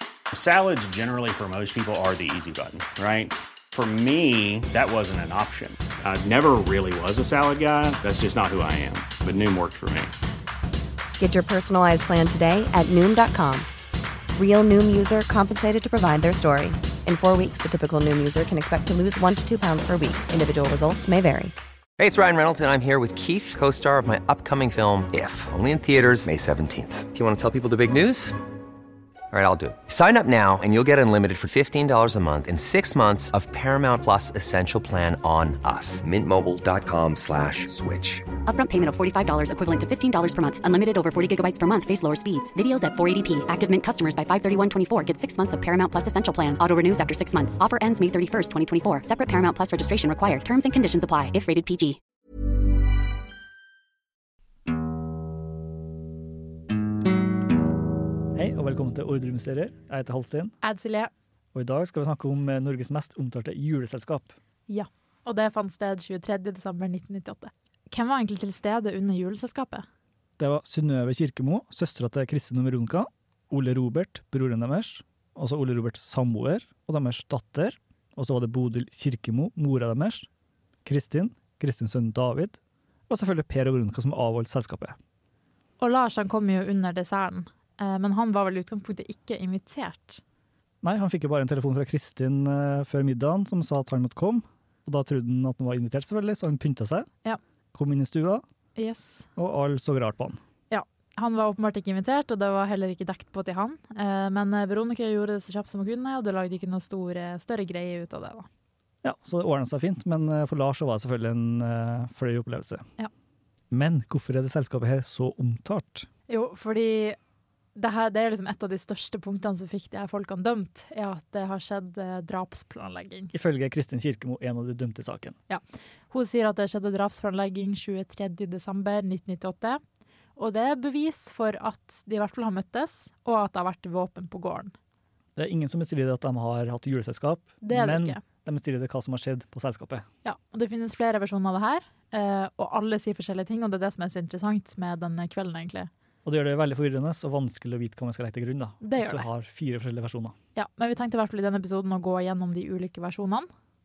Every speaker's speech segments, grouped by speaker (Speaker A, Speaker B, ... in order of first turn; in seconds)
Speaker A: 0.3-10.1
Speaker B: 11.2-13.7, 14.4-21.5
Speaker C: 22.0-28.4, 29.3-38.3
Speaker D: 38.5-52.0
Speaker E: 58.3-60.5, 61.5-64.3, 70.4-80.3, 80.8-85.0, 90.8-97.1, 97.7-98.4, 99.4-100.4, 109.0-112.9, 113.7-116.1, 123.3-125.4, 135.4-140.1, 146.2-150.4
Speaker F: 60.6-61.1, 64.7-69.9, 85.8-90.2, 98.8-99.3, 100.7-108.5, 116.3-117.2, 117.8-123.3, 125.5-129.8, 130.4-134.7, 137.6-138.2, 140.2-145.9, 148.8-149.3, 150.6-153.5